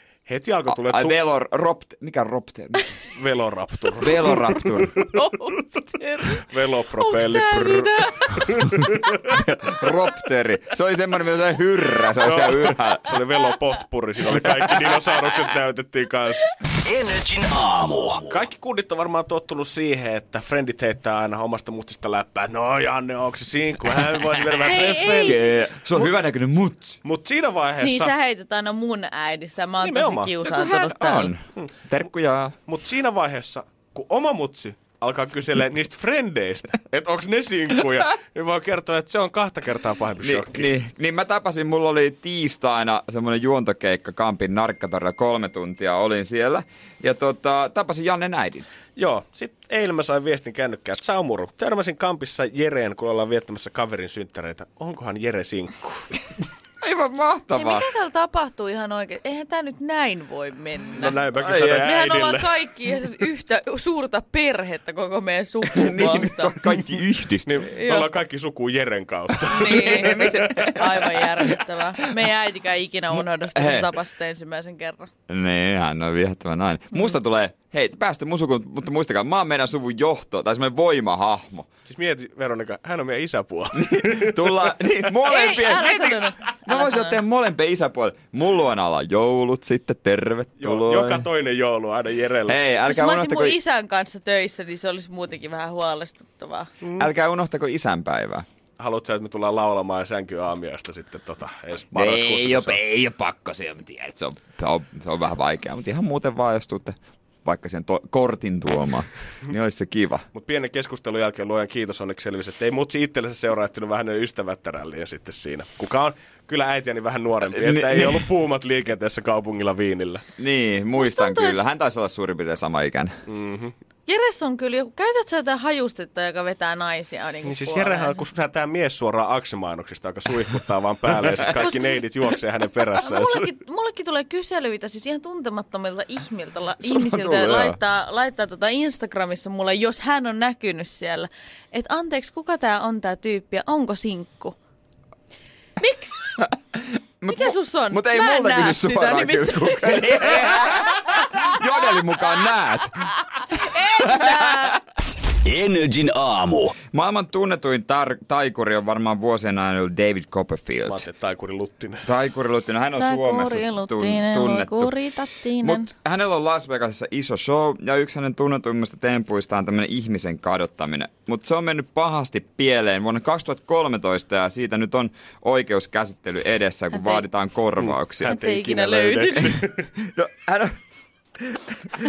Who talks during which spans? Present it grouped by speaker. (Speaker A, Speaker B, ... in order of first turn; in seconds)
Speaker A: 0.3-1.2, 3.1-5.1, 6.5-9.1, 12.2-16.5, 18.2-25.4, 27.0-28.1, 29.8-30.4, 32.7-40.7, 49.0-56.2, 61.0-62.5, 67.5-70.3, 81.9-84.7, 90.6-92.6, 96.8-97.1, 98.8-102.8, 110.3-120.2, 123.3-123.7, 127.4-133.4, 160.9-162.1, 177.8-179.9
Speaker B: 0.7-2.9, 4.0-5.0, 9.3-13.0, 24.9-27.0, 30.4-32.5, 40.2-48.7, 56.8-57.9, 61.3-62.0, 65.7-67.6, 69.5-71.6, 73.2-73.9, 75.3-81.7, 83.7-91.2, 92.5-93.6, 97.0-98.5, 101.9-110.3, 117.5-118.2, 120.4-123.2, 136.8-137.8, 147.2-154.7, 156.9-161.0, 162.1-164.9, 165.6-178.4, 179.4-180.8, 181.4-181.8
Speaker C: 5.1-8.4, 24.6-25.4, 27.8-31.3, 57.5-61.2, 61.8-66.5, 67.7-68.1, 69.5-75.1, 85.3-87.2, 92.9-96.7, 121.0-121.6, 124.1-128.2, 131.5-132.0, 133.0-144.6, 145.8-146.4, 147.3-152.5, 153.5-154.8, 163.0-165.9, 176.9-177.2, 178.2-179.6
Speaker D: 16.9-18.4, 155.4-156.8